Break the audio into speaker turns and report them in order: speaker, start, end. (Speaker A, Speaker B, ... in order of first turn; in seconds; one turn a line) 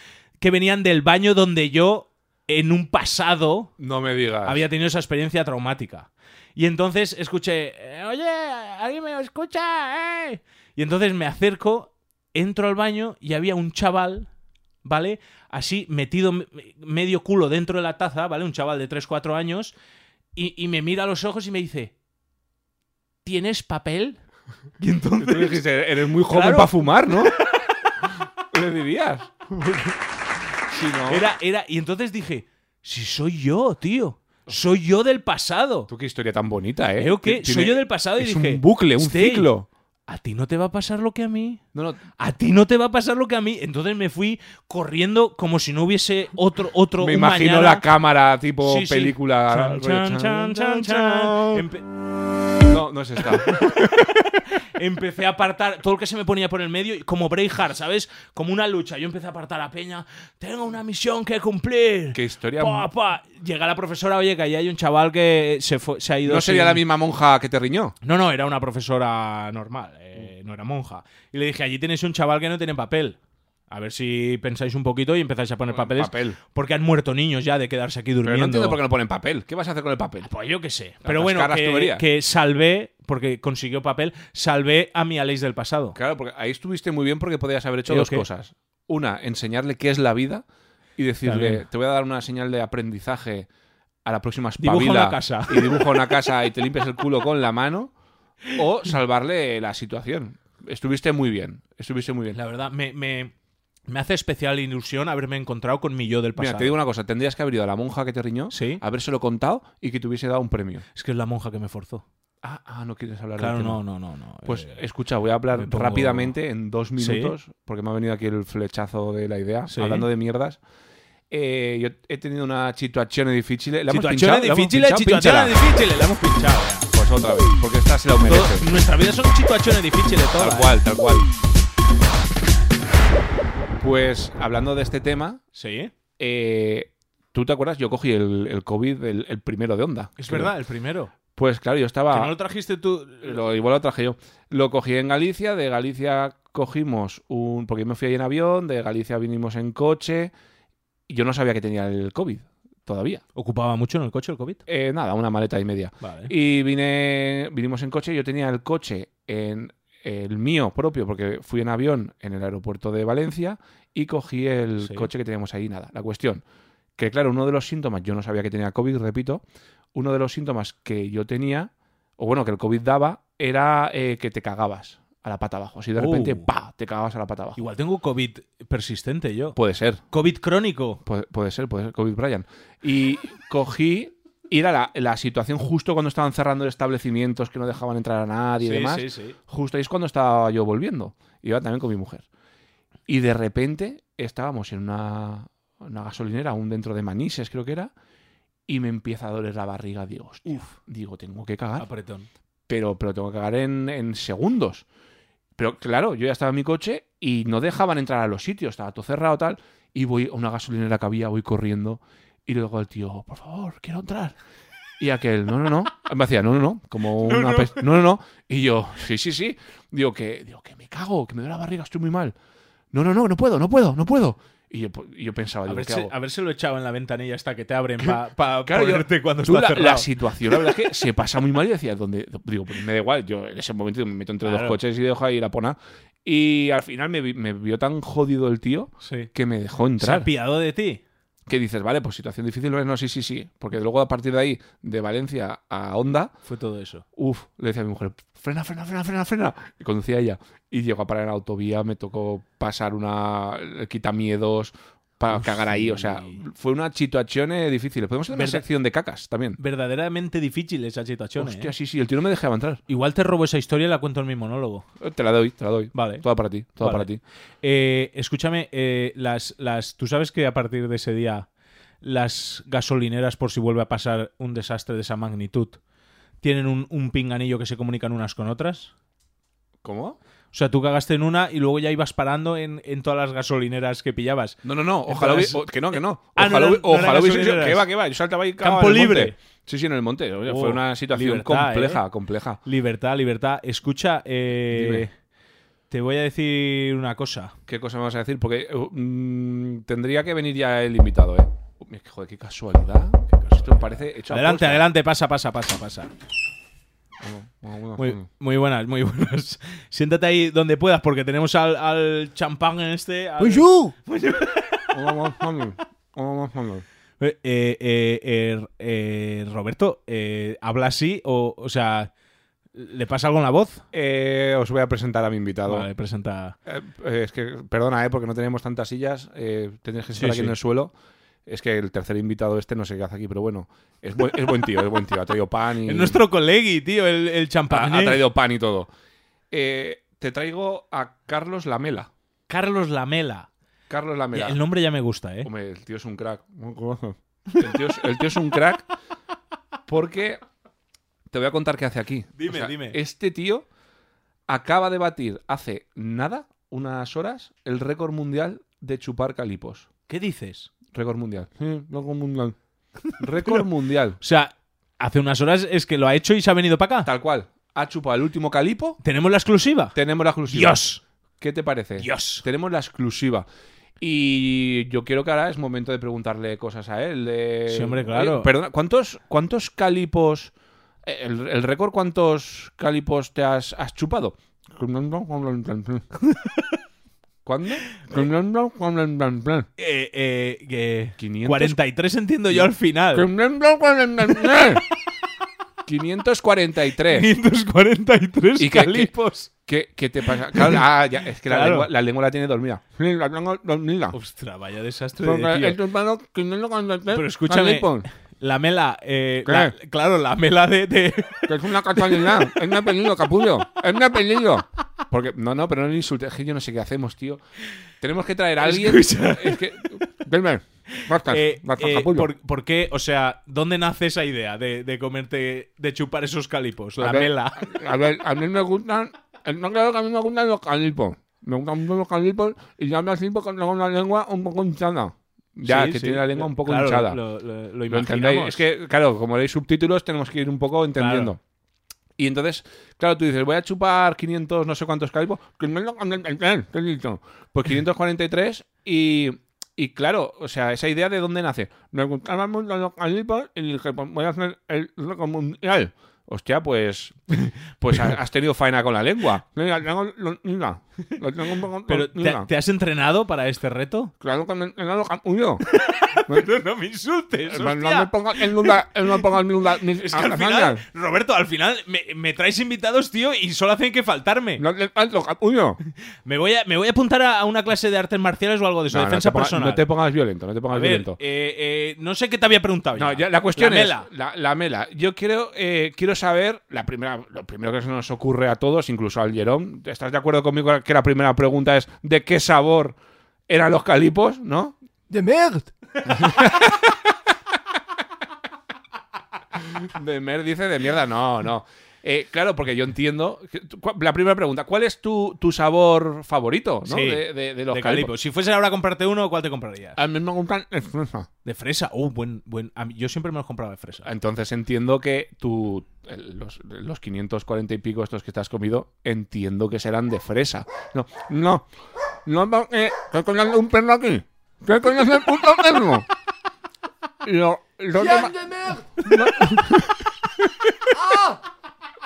Speaker A: 0.4-3.7
Speaker B: 3.8-4.6
Speaker A: 4.4-14.3
Speaker A: 14.8-19.7
Speaker A: 20.3-21.9
Speaker A: 23.2-24.2
Speaker A: 24.8-25.6
Speaker B: 25.2-27.3
Speaker A: 26.2-27.3
Speaker B: 28.5-29.9
Speaker B: 30.6-31.2
Speaker A: 31.1-35.9
Speaker B: 35.9-39.7
Speaker A: 37.0-39.5
Speaker A: 40.1-41.6
Speaker B: 41.7-42.0
Speaker A: 42.2-47.8
Speaker B: 47.0-51.6
Speaker A: 48.6-51.9
Speaker B: 52.6-53.8
Speaker A: 53.5-66.8
Speaker B: 62.1-62.9
Speaker B: 66.2-67.9
Speaker A: 68.0-73.2
Speaker A: 73.7-78.8
Speaker B: 75.7-76.4
Speaker B: 78.2-80.3
Speaker A: 80.2-86.0
Speaker B: 81.0-82.0
Speaker B: 85.9-90.4
Speaker A: 87.9-88.2
Speaker B: 91.0-93.5
Speaker A: 91.2-91.6
Speaker B: 94.0-97.9
Speaker A: 94.6-95.9
Speaker B: 98.5-102.4
Speaker A: 102.3-103.3
Speaker A: 103.9-106.7
Speaker B: 106.4-110.8
Speaker A: 108.5-108.8
Speaker A: 110.9-112.0
Speaker B: 112.4-113.8
Speaker A: 113.4-114.8
Speaker B: 114.4-120.6
Speaker A: 115.5-116.3
Speaker A: 117.0-117.3
Speaker A: 119.7-120.1
Speaker B: 121.3-125.5
Speaker A: 123.9-126.9
Speaker B: 126.9-128.7
Speaker A: 128.2-130.7
Speaker B: 130.4-131.3
Speaker B: 133.8-135.4
Speaker A: 135.5-135.9
Speaker B: 136.2-140.5
Speaker A: 140.2-141.1
Speaker B: 141.4-142.3
Speaker A: 142.1-143.4
Speaker B: 143.2-150.3
Speaker B: 151.1-153.2
Speaker A: 153.4-154.6
Speaker B: 154.7-166.4
Speaker A: 156.0-156.3
Speaker A: 164.8-165.1
Speaker B: 167.0-169.4
Speaker B: 169.9-177.6
Speaker A: 175.9-176.5
Speaker A: 177.6-179.6
Speaker B: 179.5-180.0
Speaker A: 180.1-181.0
Speaker B: 181.0-192.2
Speaker A: 188.6-189.4
Speaker B: 193.1-197.9
Speaker B: 198.7-201.9
Speaker A: 201.8-202.3
Speaker B: 202.7-204.8
Speaker B: 205.6-214.4
Speaker B: 215.0-222.3
Speaker A: 217.2-217.9
Speaker B: 222.9-226.1
Speaker A: 225.7-230.1
Speaker B: 228.0-240.3
Speaker A: 234.4-234.8
Speaker A: 239.0-239.3
Speaker A: 240.0-241.0
Speaker B: 241.5-246.3
Speaker A: 246.4-247.0
Speaker B: 247.2-259.6
Speaker A: 255.3-256.4
Speaker A: 258.3-258.6
Speaker A: 259.6-261.7
Speaker B: 261.4-262.8
Speaker A: 262.9-264.9
Speaker B: 265.0-267.2
Speaker A: 265.9-266.2
Speaker A: 266.8-267.1
Speaker A: 267.6-271.5
Speaker A: 272.0-275.8
Speaker A: 276.4-278.9
Speaker B: 279.8-280.2
Speaker A: 280.5-287.9
Speaker B: 284.6-292.6
Speaker A: 288.6-289.3
Speaker A: 290.4-292.0
Speaker A: 292.6-295.1
Speaker B: 294.7-295.1
Speaker A: 295.9-297.5
Speaker B: 297.7-304.8
Speaker A: 303.4-306.1
Speaker B: 307.2-308.2
Speaker A: 308.0-315.1
Speaker C: 313.4-313.9
Speaker B: 314.9-316.8
Speaker A: 317.2-322.1
Speaker A: 322.7-323.8
Speaker B: 323.9-325.9
Speaker A: 325.7-326.6
Speaker B: 326.6-330.9
Speaker A: 330.1-330.6
Speaker B: 331.4-336.2
Speaker A: 335.9-338.2
Speaker B: 337.7-338.9
Speaker B: 339.5-342.1
Speaker A: 342.5-343.5
Speaker B: 343.9-344.6
Speaker A: 344.3-345.5
Speaker B: 345.4-348.9
Speaker B: 349.9-350.4
Speaker B: 351.3-353.6
Speaker A: 352.4-353.0
Speaker B: 354.5-359.9
Speaker A: 360.1-360.7
Speaker B: 360.9-362.6
Speaker A: 363.1-363.6
Speaker B: 363.2-364.2
Speaker A: 364.2-367.1
Speaker B: 367.0-369.0
Speaker A: 369.0-369.9
Speaker B: 369.9-370.8
Speaker A: 370.5-371.0
Speaker B: 371.4-373.5
Speaker A: 372.0-372.4
Speaker B: 374.0-380.5
Speaker A: 377.7-378.5
Speaker B: 381.0-386.0
Speaker A: 386.2-386.8
Speaker B: 387.4-389.7
Speaker A: 389.8-393.3
Speaker B: 391.2-391.8
Speaker B: 392.5-394.8
Speaker B: 395.9-397.3
Speaker A: 397.1-399.5
Speaker B: 398.6-404.1
Speaker A: 400.5-400.8
Speaker A: 401.4-401.9
Speaker A: 404.1-405.8
Speaker B: 405.2-408.1
Speaker A: 407.1-412.4
Speaker B: 409.4-409.7
Speaker B: 411.5-417.4
Speaker B: 418.0-422.3
Speaker A: 418.6-419.8
Speaker A: 421.0-427.7
Speaker B: 427.0-437.2
Speaker A: 435.6-438.6
Speaker B: 437.9-441.4
Speaker A: 441.0-441.3
Speaker B: 442.2-462.5
Speaker A: 461.9-464.1
Speaker B: 464.2-465.6
Speaker A: 465.7-468.8
Speaker B: 467.5-470.8
Speaker A: 469.9-474.6
Speaker B: 474.6-475.8
Speaker A: 476.2-479.8
Speaker B: 478.9-481.2
Speaker A: 480.7-484.1
Speaker B: 482.9-493.0
Speaker B: 493.5-494.8
Speaker C: 495.1-495.7
Speaker B: 496.1-496.9
Speaker B: 499.6-508.1
Speaker A: 506.8-510.0
Speaker B: 509.9-511.3
Speaker A: 511.4-514.1
Speaker B: 514.0-521.7
Speaker B: 522.2-526.1
Speaker B: 527.2-528.3
Speaker C: 528.0-529.1
Speaker B: 529.0-530.4
Speaker C: 530.9-531.4